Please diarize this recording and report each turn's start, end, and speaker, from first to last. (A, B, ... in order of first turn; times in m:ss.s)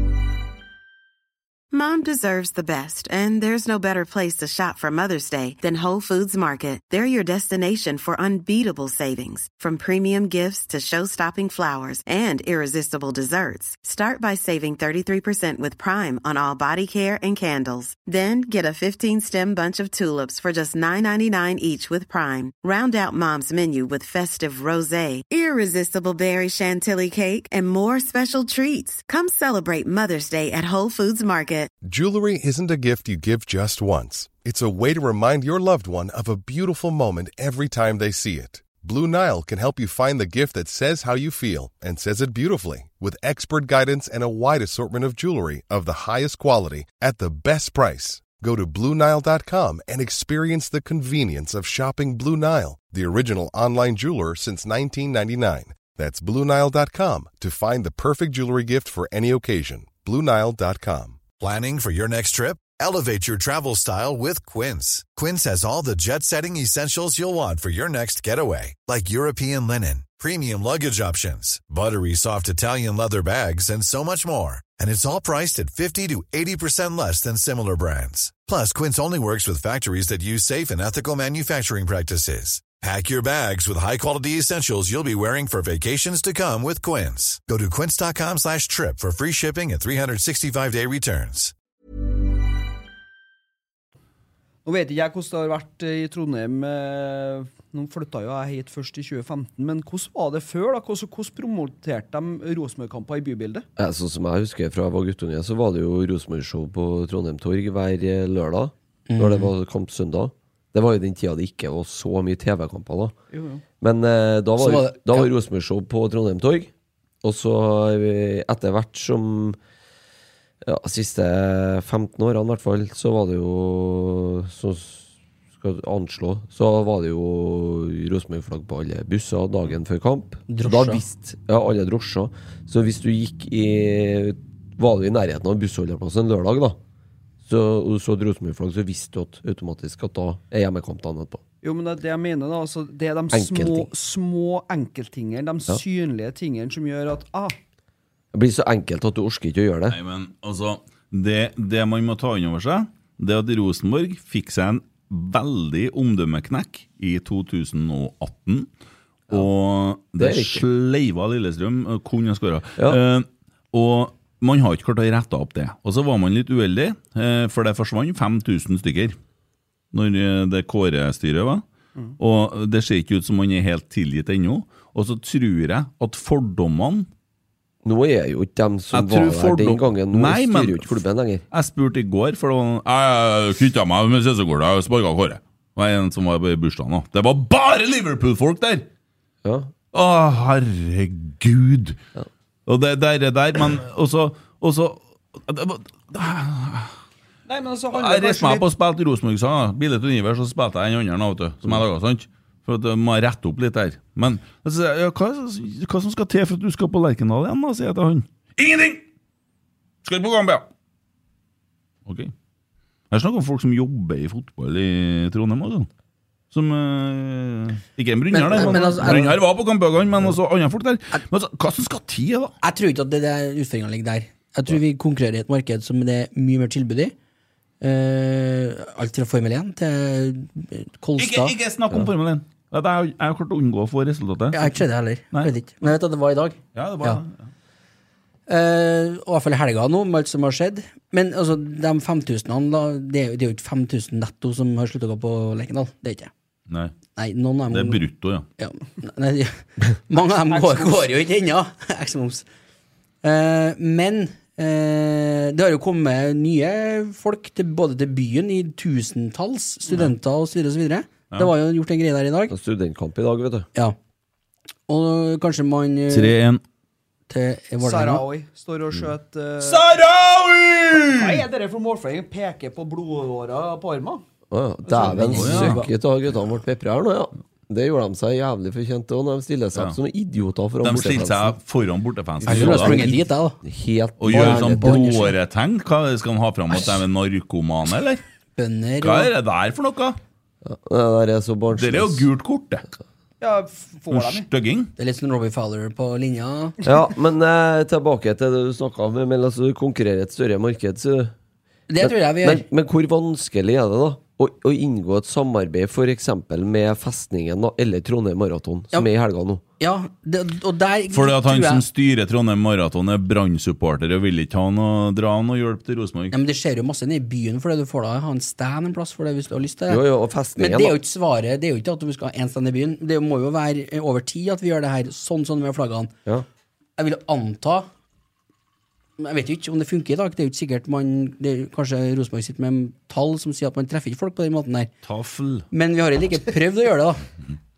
0:01.7-0:31.7 A
0:31.8-1:01.3 B
1:01.3-1:31.5 C
1:34.6-1:43.6 D
1:43.8-1:53.2 E
1:49.1-1:49.5 F
1:53.3-1:53.6 D
1:53.8-1:56.7 E
1:54.6-1:55.3 F
1:57.2-1:59.6 E
2:00.6-2:16.8 E
2:10.5-2:11.0 F
2:17.4-2:21.4 E
2:21.6-2:27.6 D
2:23.3-2:23.9 E
2:28.3-2:30.0 E
2:29.9-2:38.7 G
2:39.3-2:49.2 G
2:40.2-2:40.6 E
2:49.9-2:51.6 G
2:52.2-2:57.1 G
2:57.8-3:01.4 E
2:58.9-3:01.0 G
3:01.5-3:08.8 G
3:09.4-3:09.7 E
3:09.9-3:12.0 G
3:12.7-3:17.0 G
3:17.5-3:18.7 D
3:17.9-3:29.0 G
3:30.0-3:30.7 G
3:32.1-3:32.3 G
3:33.1-3:35.9 G
3:36.5-3:42.5 G
3:38.3-3:39.4 F
3:42.6-3:47.1 F
3:47.8-3:52.1 F
3:51.2-3:54.8 G
3:54.5-3:57.2 F
3:56.7-3:57.4 G
3:58.5-4:06.3 F
4:07.2-4:08.0 F
4:07.7-4:08.5 G
4:08.6-4:12.4 F
4:10.5-4:11.1 D
4:13.2-4:22.5 F
4:22.5-4:23.7 E
4:24.9-4:26.4 F
4:26.1-4:26.6 G
4:27.3-4:28.2 F
4:27.8-4:29.8 D
4:29.6-4:31.4 G
4:30.9-4:34.2 D
4:34.5-4:41.6 E
4:34.9-4:35.4 D
4:35.0-4:35.9 F
4:35.3-4:35.8 G
4:40.8-4:43.0 G
4:42.4-4:45.2 E
4:42.5-4:43.6 F
4:44.2-4:48.2 G
4:44.3-4:45.3 F
4:48.6-4:49.3 F
4:49.0-4:50.2 G
4:50.6-4:52.2 E
4:51.8-4:52.9 G
4:53.4-4:54.5 D
4:54.1-4:54.9 G
4:55.0-4:56.8 F
4:56.8-5:01.3 E
5:01.9-5:02.7 F
5:02.0-5:09.6 E
5:09.8-5:11.8 F
5:11.1-5:16.4 G
5:16.3-5:20.0 F
5:19.9-5:21.0 E
5:20.6-5:26.1 F
5:27.0-5:27.9 F
5:29.2-5:34.9 F
5:35.0-5:35.7 G
5:35.7-5:37.2 F